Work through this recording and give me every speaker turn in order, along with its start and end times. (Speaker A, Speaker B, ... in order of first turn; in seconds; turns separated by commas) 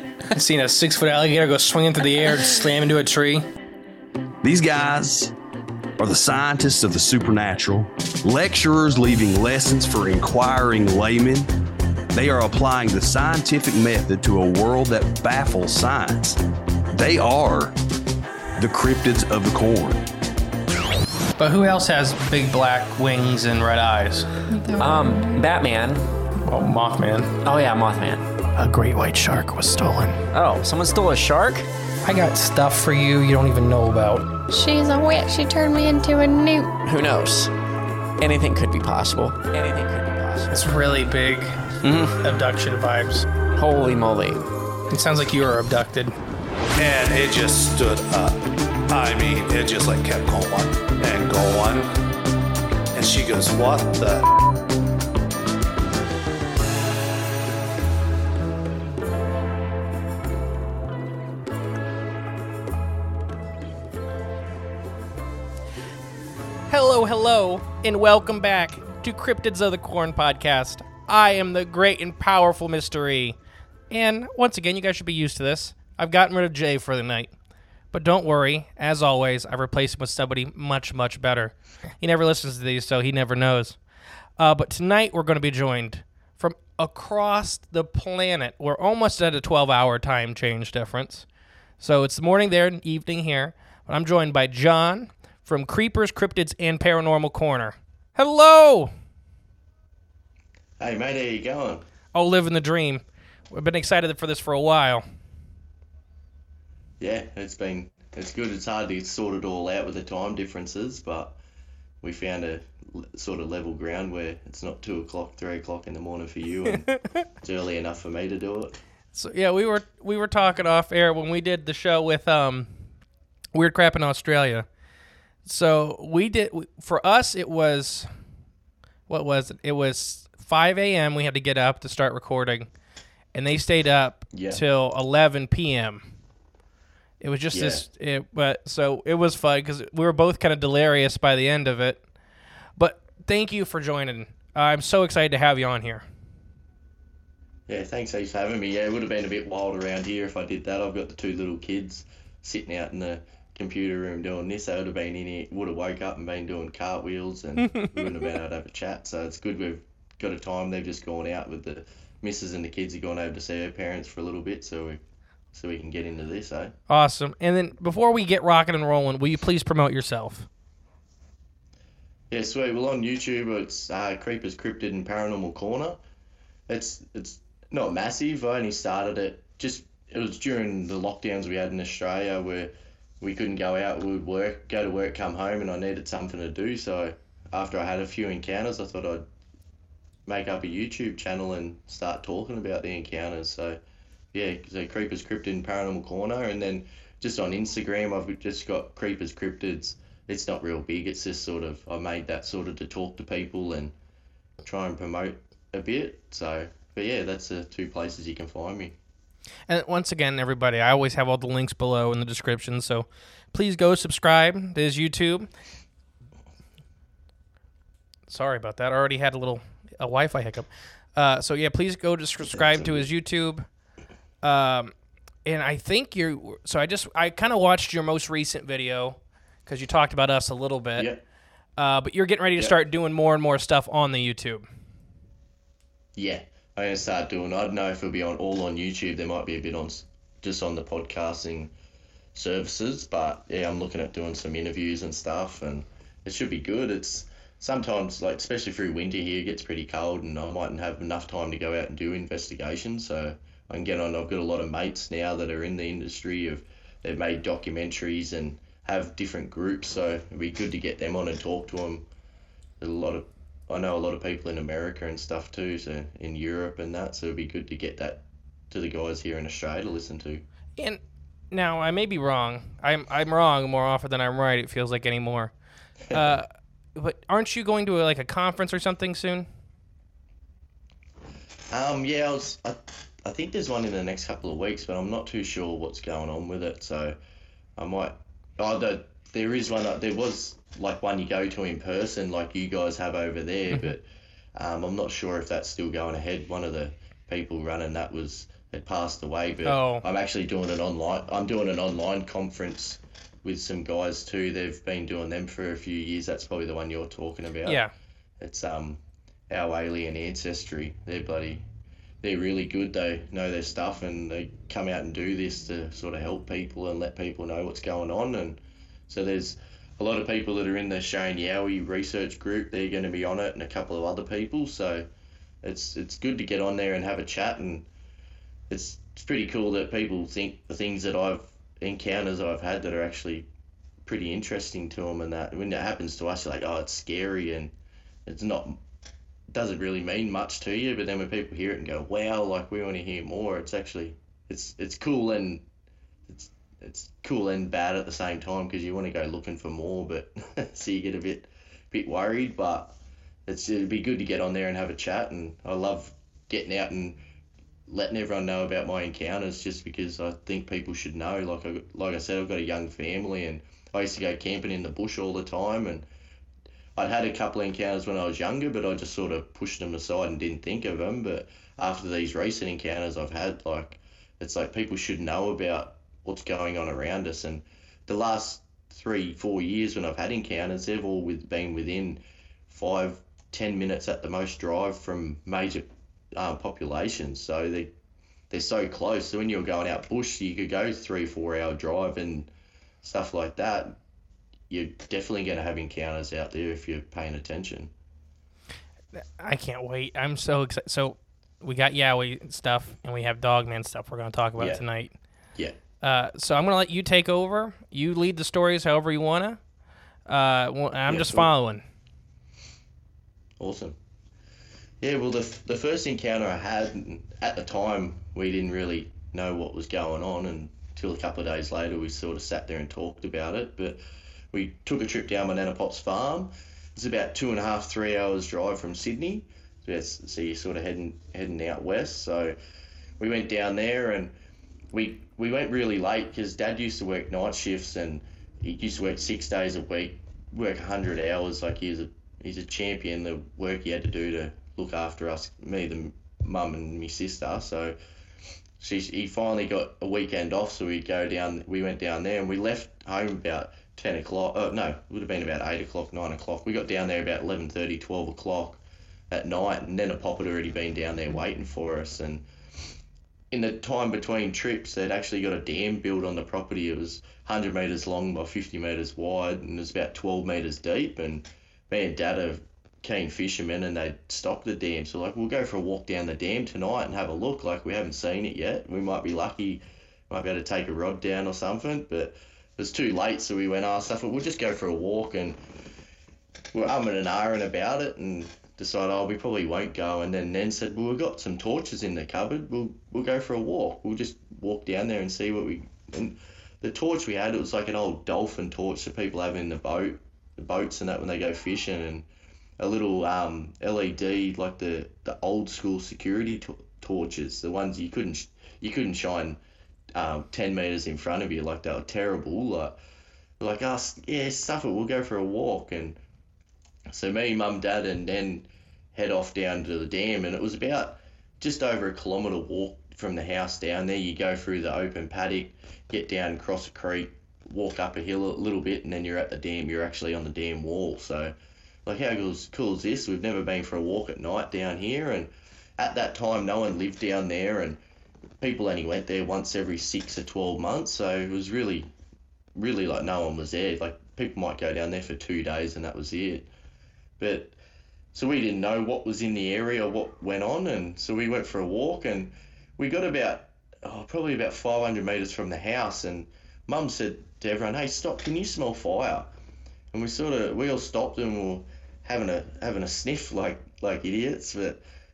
Speaker A: 0.3-3.4, Speaker B: 4.4-5.3, Speaker B: 6.0-11.5, Speaker B: 12.1-16.4, Speaker B: 16.9-17.7, Speaker B: 18.6-20.0, Speaker A: 21.4-24.3, Speaker C: 24.8-26.0, Speaker A: 26.5-27.3, Speaker C: 27.4-28.3, Speaker A: 28.6-30.2, Speaker C: 30.3-31.7, Speaker A: 32.1-34.3, Speaker D: 34.5-36.8, Speaker C: 36.8-37.5, Speaker C: 38.2-40.5, Speaker A: 40.5-43.2, Speaker C: 43.5-44.4, Speaker A: 44.9-46.1, Speaker E: 46.8-52.0, Speaker E: 52.9-54.2, Speaker A: 66.7-73.4, Speaker A: 73.9-77.3, Speaker A: 77.9-83.8, Speaker A: 84.4-91.3, Speaker A: 91.8-98.9, Speaker F: 100.8-101.8, Speaker A: 102.1-105.0, Speaker F: 107.0-111.4, Speaker F: 112.0-116.9, Speaker F: 117.4-118.8, Speaker A: 119.1-122.7, Speaker A: 123.5-124.7, Speaker A: 125.5-128.1, Speaker A: 129.1-132.7, Speaker A: 133.3-136.0, Speaker F: 134.3-134.6, Speaker A: 137.2-142.0, Speaker F: 137.5-137.8, Speaker A: 142.8-146.0, Speaker F: 147.7-165.0, Speaker F: 165.5-166.7, Speaker A: 166.9-170.5, Speaker F: 172.3-176.0, Speaker F: 176.7-189.2, Speaker F: 190.3-193.8, Speaker F: 194.3-203.9, Speaker F: 204.6-209.0, Speaker A: 209.7-215.5, Speaker A: 218.3-223.7, Speaker F: 222.4-223.1, Speaker A: 224.4-224.9, Speaker A: 225.4-231.1, Speaker F: 231.0-231.2, Speaker A: 231.8-234.7, Speaker F: 236.2-241.7, Speaker F: 242.3-262.1, Speaker F: 262.8-270.4, Speaker A: 271.5-275.5, Speaker A: 276.1-279.5, Speaker F: 281.7-287.2, Speaker F: 287.8-294.1, Speaker F: 294.6-307.8, Speaker A: 299.6-300.0, Speaker A: 307.6-307.9, Speaker F: 308.4-311.6, Speaker F: 312.2-325.1, Speaker F: 325.6-327.9, Speaker F: 328.7-333.5, Speaker F: 334.1-337.7, Speaker F: 338.3-338.8, Speaker F: 339.5-345.6, Speaker F: 346.3-352.9, Speaker F: 353.5-357.2, Speaker F: 357.9-366.1, Speaker F: 367.0-387.9, Speaker F: 388.5-392.5, Speaker F: 393.0-394.0, Speaker F: 394.7-397.9, Speaker A: 399.1-405.1, Speaker F: 404.6-404.8, Speaker A: 406.0-409.6, Speaker A: 410.3-411.8, Speaker F: 411.1-411.5, Speaker F: 413.6-414.0, Speaker F: 415.0-424.0, Speaker F: 424.5-432.6, Speaker F: 433.2-434.3, Speaker F: 434.9-448.0, Speaker F: 448.8-462.4, Speaker F: 463.5-485.6, Speaker F: 486.7-502.3, Speaker F: 502.8-509.6, Speaker F: 510.1-513.0, Speaker F: 513.6-516.2, Speaker F: 517.1-531.5, Speaker F: 532.1-538.0, Speaker F: 538.6-542.1, Speaker F: 542.8-546.7, Speaker F: 547.4-547.8, Speaker F: 548.3-559.5, Speaker F: 560.1-565.0